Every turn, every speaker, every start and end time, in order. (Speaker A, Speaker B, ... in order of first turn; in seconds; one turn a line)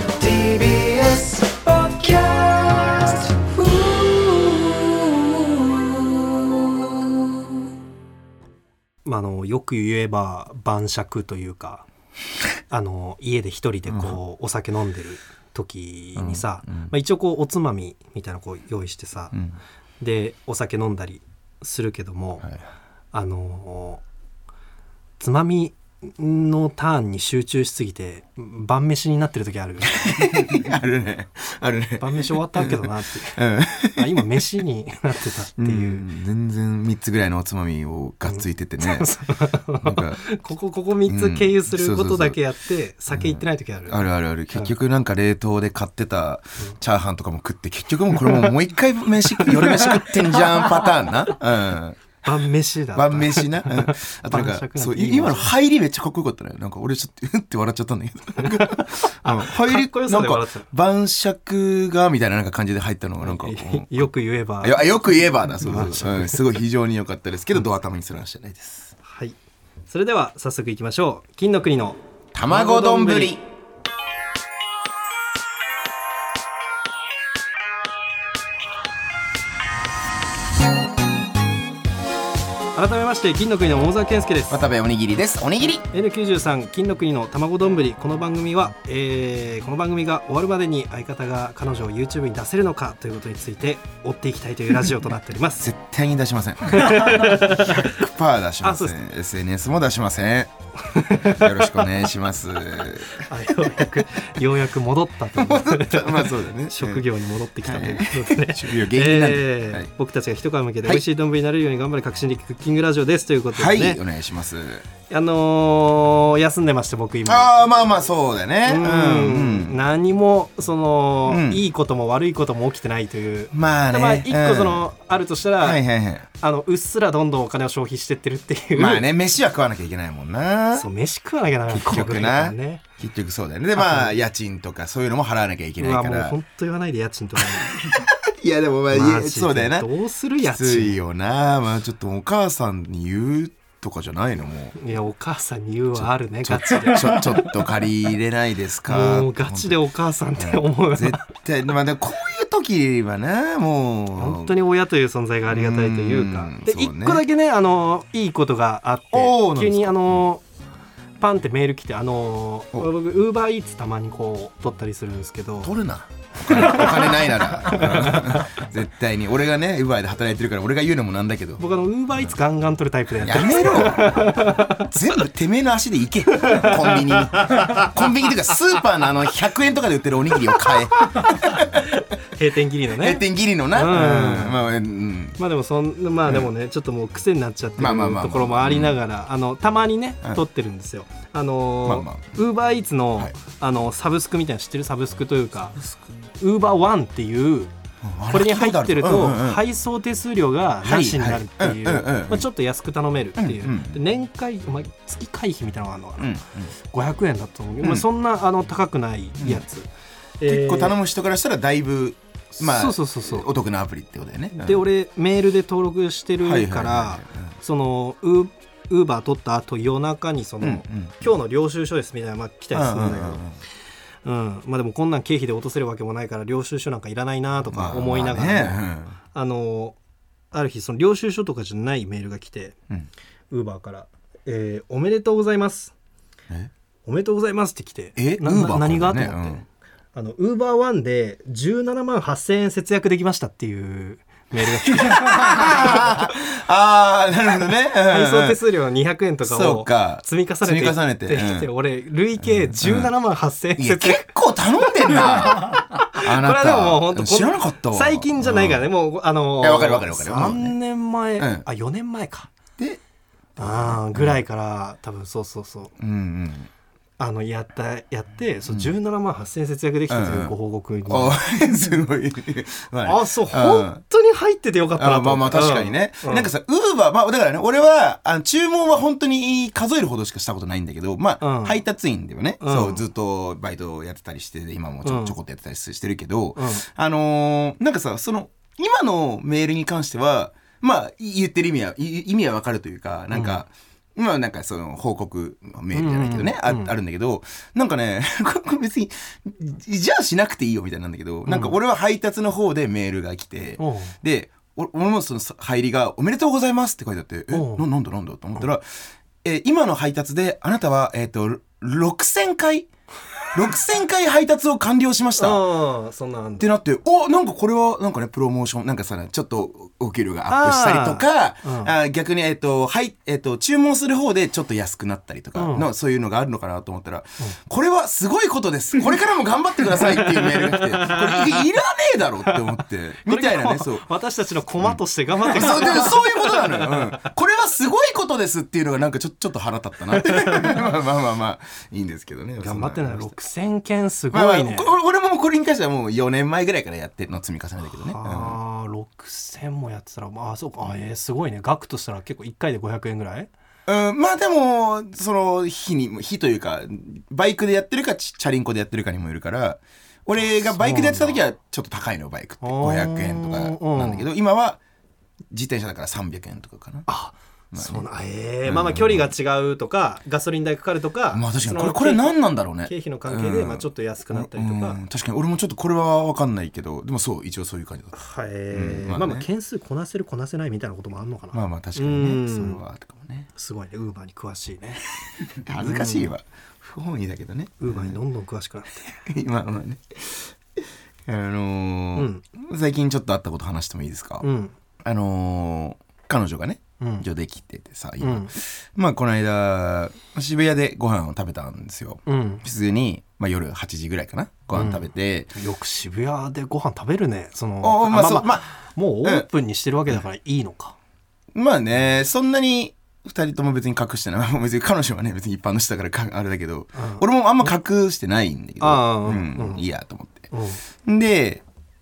Speaker A: 0.2-4.7
Speaker B: 9.1-11.9
Speaker B: 12.7-19.4
Speaker C: 13.9-14.2
Speaker C: 16.2-16.9
Speaker C: 19.3-19.6
Speaker B: 20.0-22.5
Speaker B: 23.1-24.0
Speaker B: 25.2-30.3
Speaker C: 29.8-34.6
Speaker B: 32.0-33.4
Speaker B: 33.9-36.1
Speaker C: 35.6-39.1
Speaker B: 38.3-44.7
Speaker C: 39.8-40.2
Speaker C: 41.1-42.4
Speaker C: 43.1-52.2
Speaker B: 49.4-50.9
Speaker B: 52.2-55.5
Speaker C: 52.9-64.1
Speaker B: 58.4-60.7
Speaker B: 63.2-66.5
Speaker C: 64.6-68.9
Speaker B: 69.0-69.4
Speaker B: 69.9-73.4
Speaker C: 72.3-73.5
Speaker B: 82.8-84.5
Speaker C: 84.5-85.9
Speaker B: 85.9-95.6
Speaker C: 95.6-100.5
Speaker B: 96.7-98.0
Speaker B: 98.6-99.0
Speaker B: 100.9-101.9
Speaker C: 101.1-104.0
Speaker B: 103.2-114.0
Speaker C: 105.4-107.0
Speaker C: 107.6-109.9
Speaker C: 113.5-114.8
Speaker B: 115.1-117.5
Speaker C: 117.2-119.8
Speaker B: 118.7-125.8
Speaker C: 121.3-121.6
Speaker C: 123.5-124.8
Speaker C: 125.6-126.3
Speaker B: 126.3-129.0
Speaker C: 128.8-130.9
Speaker B: 130.7-132.8
Speaker C: 131.7-136.4
Speaker B: 133.8-134.1
Speaker B: 135.8-137.9
Speaker C: 137.4-139.9
Speaker B: 138.9-141.0
Speaker C: 140.4-144.8
Speaker B: 144.8-147.7
Speaker C: 146.0-149.8
Speaker B: 148.9-151.2
Speaker C: 150.4-154.5
Speaker B: 154.2-160.4
Speaker C: 155.5-157.2
Speaker C: 159.1-160.2
Speaker B: 161.2-165.7
Speaker C: 165.6-171.6
Speaker B: 166.4-168.5
Speaker B: 171.6-174.9
Speaker C: 173.2-181.9
Speaker B: 176.4-177.9
Speaker B: 180.7-184.6
Speaker C: 183.0-185.4
Speaker B: 185.4-195.8
Speaker C: 187.8-189.0
Speaker C: 191.8-192.3
Speaker B: 196.4-197.7
Speaker C: 198.0-199.6
Speaker B: 198.3-206.4
Speaker C: 200.8-202.5
Speaker C: 203.4-204.0
Speaker C: 206.2-206.7
Speaker B: 206.9-209.9
Speaker C: 207.8-208.1
Speaker C: 209.4-209.7
Speaker B: 210.4-210.9
Speaker C: 210.5-214.9
Speaker B: 212.6-213.5
Speaker B: 214.6-223.4
Speaker C: 216.4-217.6
Speaker C: 220.6-221.3
Speaker C: 222.7-223.6
Speaker B: 224.2-228.8
Speaker C: 227.7-229.2
Speaker B: 229.3-230.0
Speaker B: 230.5-232.8
Speaker B: 233.5-235.9
Speaker B: 237.1-246.2
Speaker C: 238.2-239.6
Speaker C: 244.7-248.6
Speaker B: 248.0-254.3
Speaker C: 249.4-251.7
Speaker C: 252.4-253.1
Speaker C: 253.8-258.9
Speaker B: 255.0-262.5
Speaker C: 259.6-260.8
Speaker C: 261.4-261.6
Speaker C: 263.6-264.4
Speaker B: 263.6-265.9
Speaker C: 266.0-266.7
Speaker B: 267.2-271.4
Speaker C: 268.7-268.9
Speaker C: 270.1-270.5
Speaker C: 271.1-274.0
Speaker B: 273.1-276.5
Speaker C: 275.0-308.9
Speaker B: 281.4-281.8
Speaker B: 282.6-283.0
Speaker B: 285.0-285.4
Speaker B: 286.6-286.9
Speaker B: 293.3-293.6
Speaker B: 295.9-296.9
Speaker B: 301.5-301.8
Speaker B: 303.8-304.1
Speaker B: 307.5-307.9
Speaker C: 309.4-312.9
Speaker C: 313.5-315.6
Speaker B: 315.4-316.7
Speaker C: 316.6-334.1
Speaker B: 320.5-321.9
Speaker B: 325.6-325.9
Speaker B: 330.0-331.6
Speaker B: 333.2-337.3
Speaker C: 334.8-343.4
Speaker B: 340.3-340.8
Speaker B: 342.6-344.9
Speaker C: 344.3-348.6
Speaker B: 347.9-353.5
Speaker C: 353.9-364.8
Speaker B: 360.7-361.4
Speaker B: 362.6-364.2
Speaker C: 365.5-367.1
Speaker B: 367.1-375.0
Speaker C: 367.7-368.1
Speaker C: 368.6-369.3
Speaker C: 371.3-379.5
Speaker B: 378.1-382.8
Speaker C: 381.5-383.5
Speaker B: 383.6-385.0
Speaker C: 385.6-388.2
Speaker B: 385.8-386.3
Speaker B: 387.8-389.1
Speaker C: 389.2-390.6
Speaker C: 391.3-394.4
Speaker B: 392.1-392.4
Speaker B: 394.4-394.7
Speaker C: 395.0-405.5
Speaker B: 397.0-397.3
Speaker B: 398.2-398.5
Speaker B: 402.3-402.6
Speaker B: 404.7-411.0
Speaker C: 407.8-408.7
Speaker C: 411.5-420.5
Speaker B: 416.9-417.7
Speaker B: 418.8-419.8
Speaker B: 420.5-420.8
Speaker C: 421.0-421.6